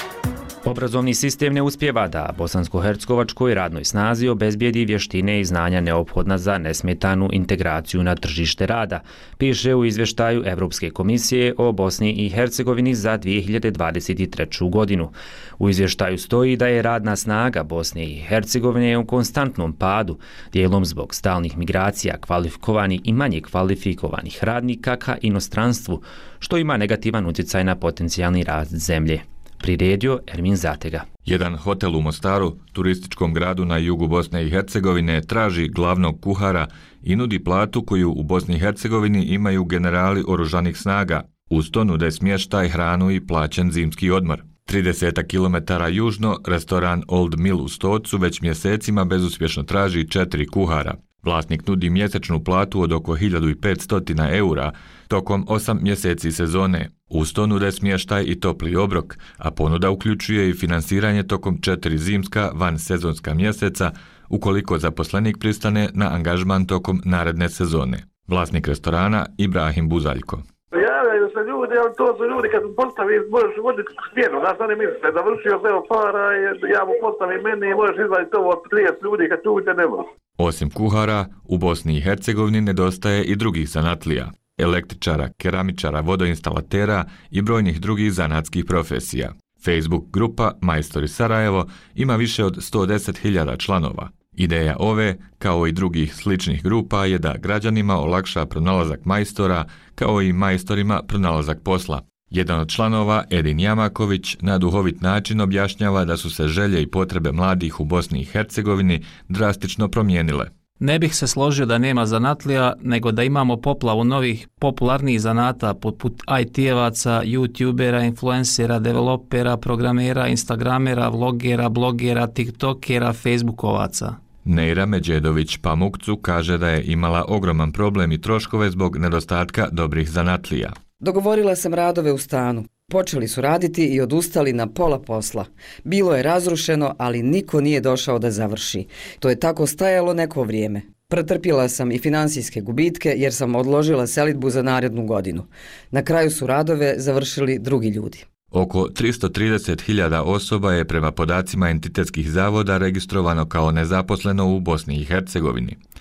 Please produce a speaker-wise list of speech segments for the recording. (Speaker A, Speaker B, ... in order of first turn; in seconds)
Speaker A: 0.7-31.1
Speaker B: 31.2-70.4, 80.4-110.5, 124.5-130.7, 148.5-155.8
Speaker C: 70.7-80.1
Speaker D: 110.8-124.2
Speaker E: 131.0-148.3